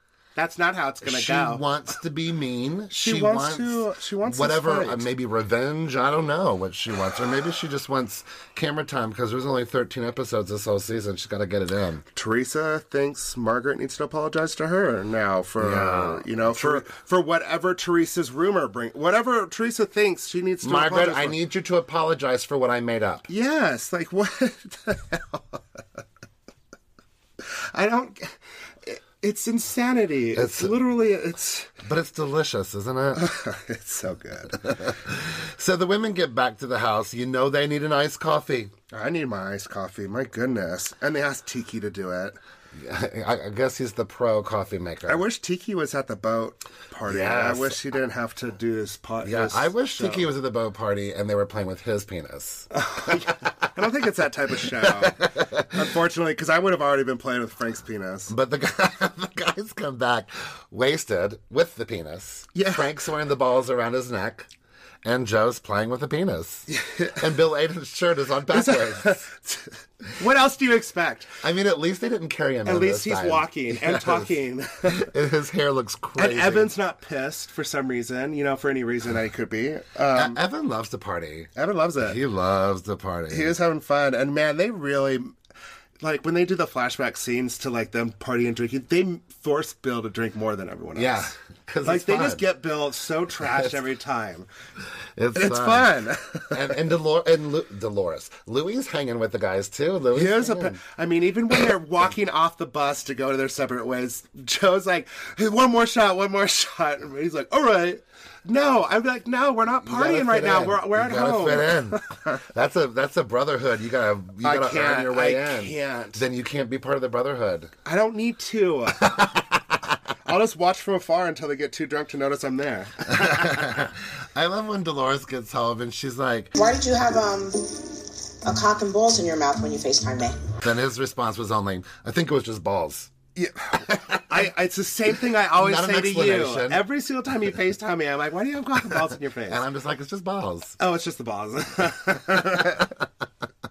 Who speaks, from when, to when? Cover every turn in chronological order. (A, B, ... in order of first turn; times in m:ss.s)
0:00.4-0:01.6 A
0:01.0-0:12.0 B
0:02.9-0:05.1 A
0:12.1-0:21.4 A
0:15.6-0:16.9 B
0:20.6-0:23.3 B
0:23.3-0:25.6 A
0:27.7-0:31.7 A
0:30.3-0:30.8 B
0:31.8-0:33.3 B
0:33.1-0:34.7 A
0:34.6-0:38.7 B
0:38.9-0:42.4 A
0:42.7-0:45.2 B
0:45.1-0:50.3 A
0:47.1-0:47.8 B
0:49.2-0:53.5 B
0:52.7-0:58.3 A
0:54.8-0:55.8 B
0:58.3-1:04.5 B
1:02.5-1:02.9 A
1:05.0-1:09.2 B
1:06.7-1:07.2 A
1:08.5-1:11.3 A
1:11.4-1:14.3 B
1:12.6-1:15.1 A
1:14.8-1:16.7 B
1:16.2-1:20.4 A
1:20.1-1:23.5 B
1:21.5-1:22.2 A
1:23.3-1:25.3 A
1:26.0-1:34.5 A
1:30.9-1:32.4 B
1:33.4-1:33.8 B
1:35.2-1:35.9 B
1:35.3-1:36.7 A
1:36.5-1:40.8 B
1:40.1-1:52.4 A
1:49.8-1:57.7 B
1:54.4-1:56.2 A
1:57.8-1:59.3 A
1:59.0-1:59.8 B
2:00.2-2:03.8 A
2:03.1-2:06.5 B
2:06.6-2:10.4 C
2:10.6-2:13.1 B
2:13.4-2:19.6 A
2:15.5-2:16.8 B
2:19.5-2:20.8 B
2:20.8-2:22.9 A